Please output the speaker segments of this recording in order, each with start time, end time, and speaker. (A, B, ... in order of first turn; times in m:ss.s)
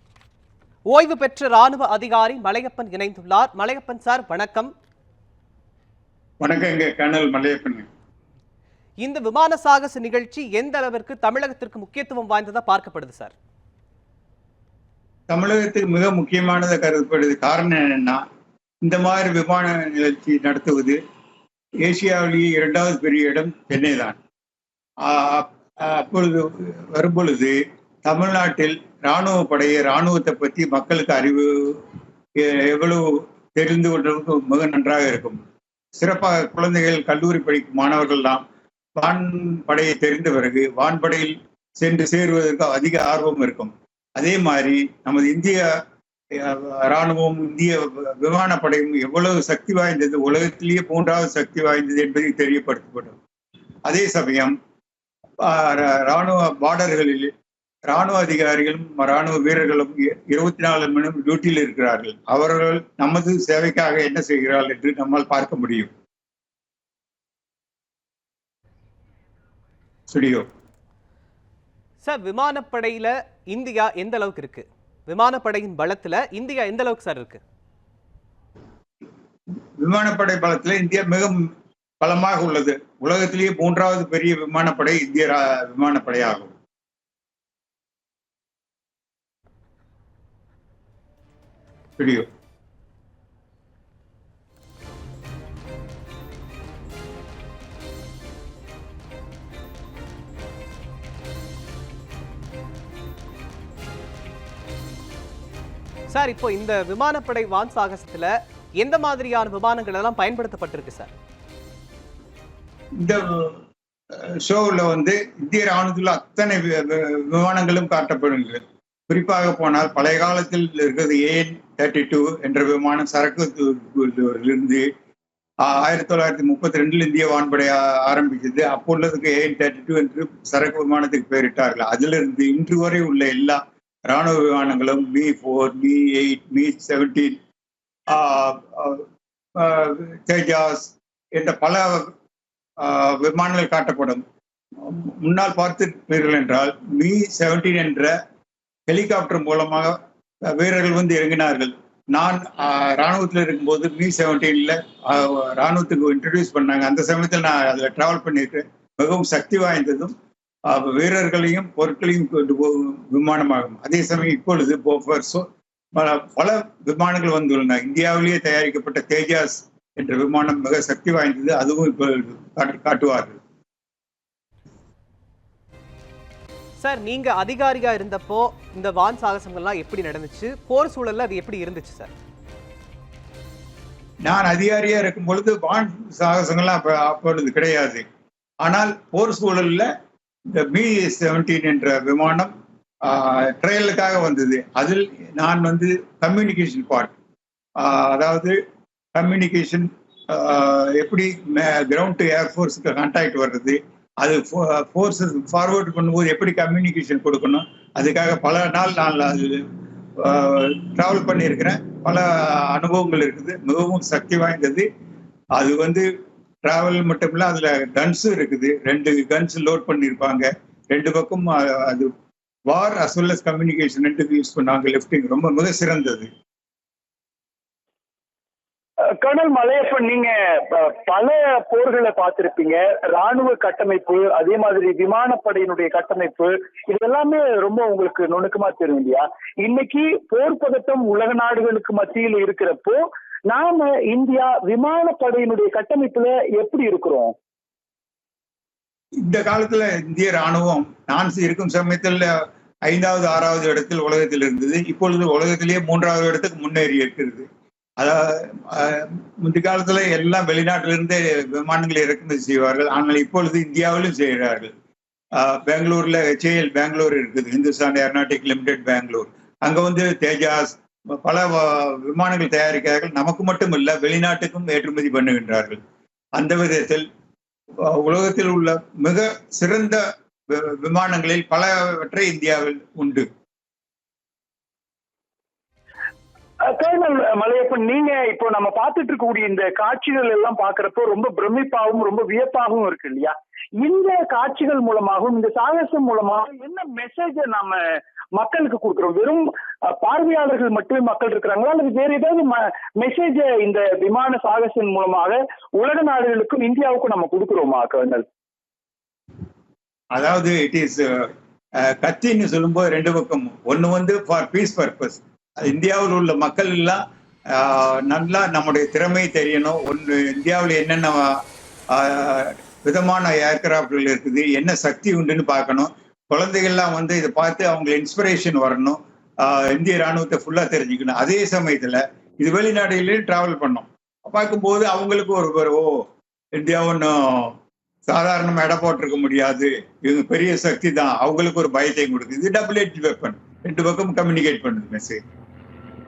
0:00.9-0:04.7 A
0:06.4-0:07.9 B
0:09.0-0:13.3 A
0:15.3-0:18.2 B
0:18.8-0:21.0 B
0:21.8-0:24.2 B
0:25.0-0:31.8 B
0:32.4-0:35.4 B
0:36.0-0:38.4 B
0:39.0-0:45.8 B
0:46.3-0:53.2 B
0:53.8-0:54.6 B
0:55.4-0:57.3 B
0:57.9-1:05.9 B
1:10.1-1:10.4 B
1:12.0-1:17.4 A
1:19.8-1:21.5 B
1:22.0-1:26.5 B
1:32.0-1:32.2 B
1:46.1-1:51.1 A
1:53.0-1:53.6 B
1:54.1-2:04.9 B
2:05.6-2:17.4 B
2:18.1-2:19.0 B
2:19.6-2:22.1 B
2:22.8-2:24.2 B
2:24.8-2:28.1 B
2:28.9-2:40.1 B
2:40.7-2:53.4 B
2:56.8-3:02.1 A
3:04.2-3:08.0 B
3:08.6-3:09.9 B
3:10.5-3:12.5 B
3:13.0-3:17.1 B
3:17.8-3:18.6 B
3:19.1-3:29.6 B
3:30.2-3:34.8 B
3:35.6-3:36.1 B
3:36.6-3:42.1 B
3:42.7-3:46.3 B
3:49.2-4:07.3 C
4:09.2-4:12.3 B
4:12.8-4:17.5 B
4:18.0-4:24.7 B
4:25.4-4:35.8 B
4:36.4-4:37.0 B
4:37.9-4:43.3 B
4:46.7-4:57.8 C
4:58.4-5:08.2 C
5:10.1-5:11.3 B
5:11.8-5:21.3 B
5:21.9-5:37.5 B
5:38.1-5:45.2 B